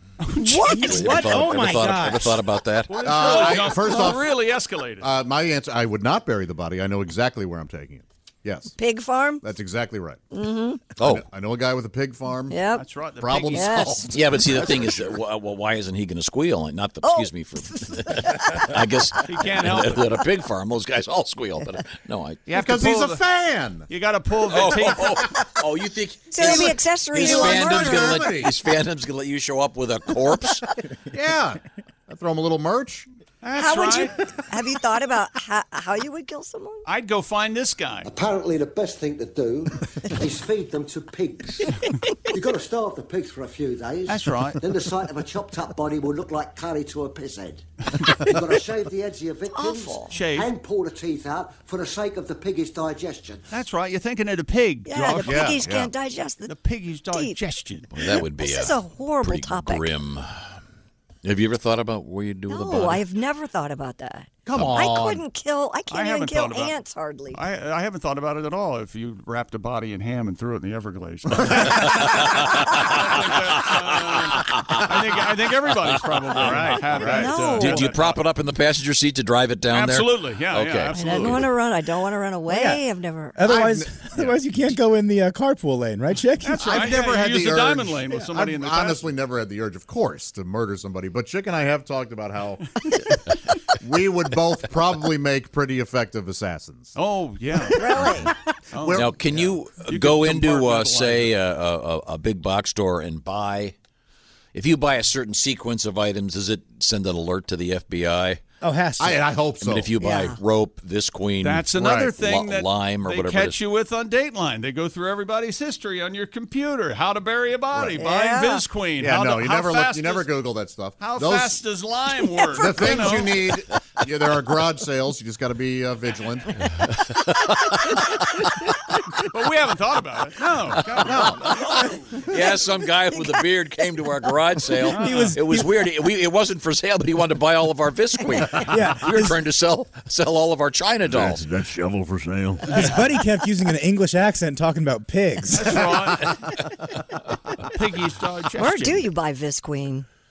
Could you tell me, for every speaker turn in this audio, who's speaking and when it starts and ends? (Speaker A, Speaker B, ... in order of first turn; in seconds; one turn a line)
Speaker A: 0.2-1.4
Speaker B: 0.4-2.5
Speaker C: 0.8-3.5
Speaker A: 2.9-5.1
Speaker D: 3.0-4.4
Speaker D: 5.0-8.8
Speaker E: 8.8-9.4
Speaker D: 9.4-10.2
Speaker E: 10.3-10.8
Speaker C: 11.0-11.3
Speaker D: 11.0-12.6
Speaker E: 12.5-12.8
Speaker A: 12.7-13.9
Speaker D: 13.2-15.1
Speaker E: 13.5-14.1
Speaker C: 14.1-22.5
Speaker E: 17.0-18.5
Speaker A: 19.3-20.2
Speaker A: 22.5-23.2
Speaker D: 22.5-23.9
Speaker A: 23.9-25.2
Speaker C: 24.5-30.7
Speaker D: 24.7-25.4
Speaker E: 26.3-28.3
Speaker D: 26.4-28.6
Speaker D: 31.1-33.1
Speaker A: 33.4-34.1
Speaker E: 33.6-36.8
Speaker A: 36.9-38.1
Speaker F: 38.0-41.8
Speaker F: 42.3-53.6
Speaker A: 44.1-44.6
Speaker E: 49.5-50.2
Speaker A: 50.1-50.5
Speaker A: 53.5-55.6
Speaker E: 54.9-56.5
Speaker D: 55.2-55.9
Speaker A: 56.5-57.9
Speaker E: 57.1-57.4
Speaker C: 57.9-60.6
Speaker E: 58.0-60.0
Speaker C: 61.2-63.1
Speaker E: 62.5-67.4
Speaker D: 64.5-65.2
Speaker A: 65.9-66.8
Speaker A: 67.3-78.2
Speaker C: 72.0-72.9
Speaker C: 73.5-74.7
Speaker C: 75.9-81.5
Speaker E: 77.0-77.8
Speaker A: 79.7-81.6
Speaker E: 80.9-83.5
Speaker B: 82.5-82.8
Speaker B: 83.3-86.7
Speaker D: 83.4-84.4
Speaker A: 86.4-89.2
Speaker D: 86.6-92.6
Speaker D: 93.7-97.0
Speaker A: 97.0-98.0
Speaker D: 97.7-99.6
Speaker E: 97.7-98.3
Speaker A: 98.7-99.2
Speaker C: 98.9-103.8
Speaker A: 99.8-101.4
Speaker C: 104.5-108.4
Speaker B: 108.6-109.2
Speaker D: 109.0-110.0
Speaker C: 109.6-113.6
Speaker E: 110.0-110.4
Speaker A: 111.4-120.4
Speaker D: 111.7-112.1
Speaker D: 117.7-118.0
Speaker E: 118.0-118.6
Speaker D: 119.0-121.6
Speaker A: 121.0-123.5
Speaker D: 122.5-126.6
Speaker C: 126.8-128.8
Speaker A: 129.3-131.9
Speaker C: 130.8-131.5
Speaker D: 130.9-132.0
Speaker C: 132.2-141.5
Speaker E: 133.1-133.5
Speaker A: 134.8-135.6
Speaker B: 134.9-135.7
Speaker B: 138.6-139.4
Speaker D: 141.1-143.0
Speaker B: 142.7-145.8
Speaker A: 145.5-146.4
Speaker D: 145.9-146.3
Speaker A: 147.7-149.1
Speaker E: 148.6-150.1